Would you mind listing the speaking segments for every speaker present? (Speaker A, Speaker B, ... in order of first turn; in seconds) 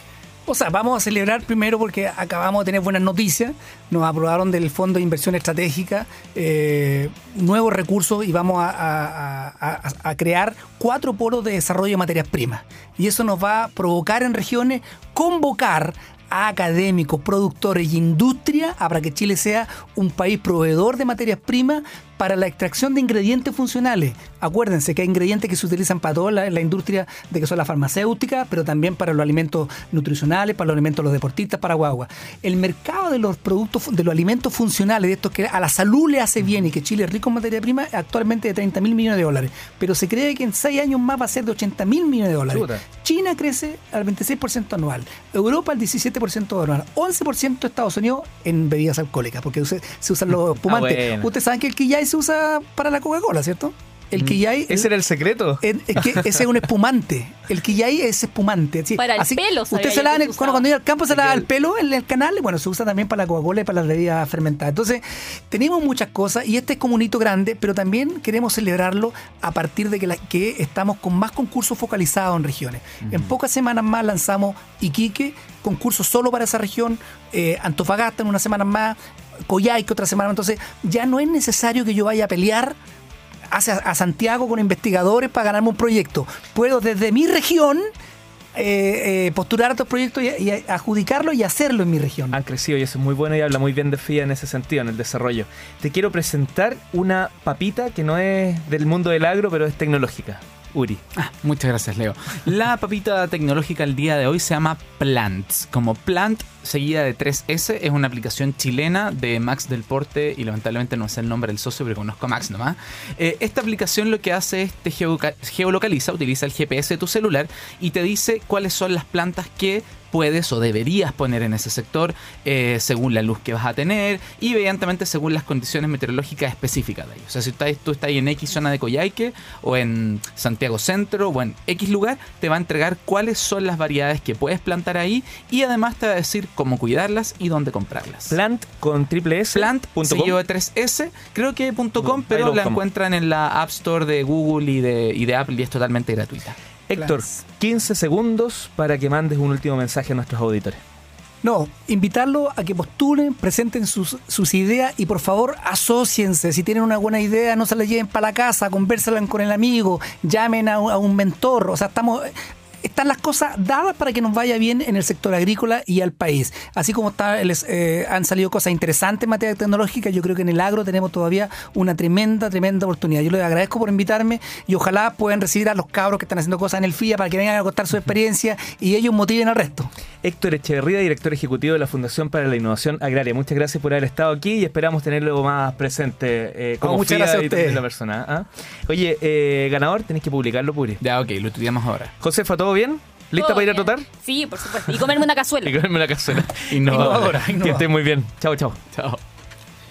Speaker A: 0.5-54.9, 55.6-79.0, 79.5-82.8, 83.5-87.9, 88.5-92.4, 146.9-147.3, 151.4-179.9, 186.8-187.8, 196.8-197.9
Speaker B: 42.5-42.8, 50.6-51.3, 54.2-56.2, 61.1-61.5, 92.3-101.0, 138.3-140.4, 142.0-142.8, 146.9-150.8, 180.2-191.0, 192.2-194.0, 195.6-198.8
Speaker C: 59.0-60.6, 193.3-195.8
Speaker D: 101.2-138.3, 139.5-146.6, 191.0-192.1, 196.7-197.4, 198.9-199.2